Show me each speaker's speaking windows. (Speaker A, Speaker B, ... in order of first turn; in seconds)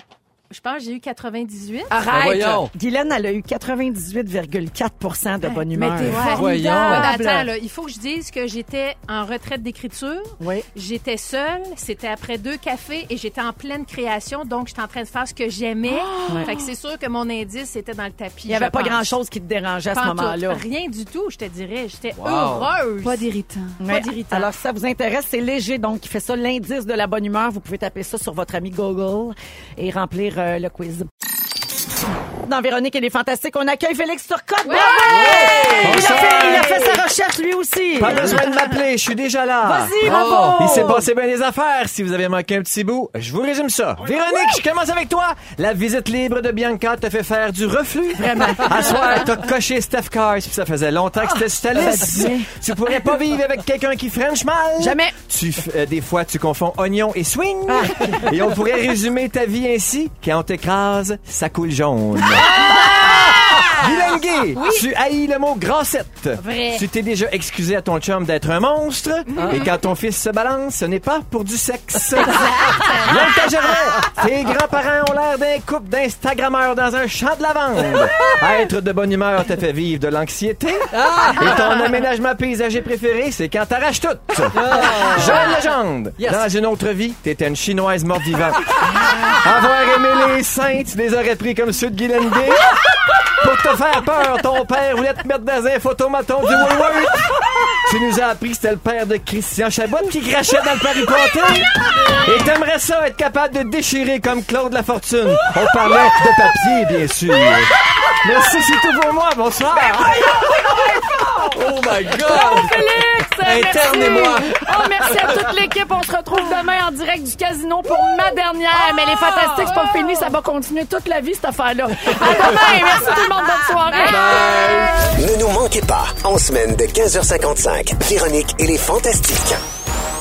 Speaker A: 0.5-2.0, 5.6-19.1, 19.9-23.3, 23.8-24.5, 34.6-36.6, 40.1-40.4, 62.6-63.7, 64.5-64.9, 66.4-66.8, 69.3-69.8, 72.2-73.5, 119.3-120.2, 123.8-124.8
Speaker B: 1.9-2.7, 5.7-7.4, 15.8-16.7, 23.0-23.9, 35.1-36.7, 40.0-40.5
Speaker C: 2.1-2.7, 6.3-7.1, 22.2-22.7, 40.0-40.6, 80.9-81.9, 84.5-85.5, 86.2-86.5, 110.3-115.6, 122.3-122.8, 124.0-125.1
Speaker D: 2.7-7.2, 10.4-10.7, 18.5-20.6, 23.8-31.1, 32.4-38.5, 39.6-41.0, 48.1-49.3, 51.8-52.5, 54.8-55.1, 57.7-58.2, 110.6-111.4, 112.1-124.9
Speaker E: 35.8-37.0, 38.0-92.7, 93.4-110.5
Speaker F: 125.1-129.6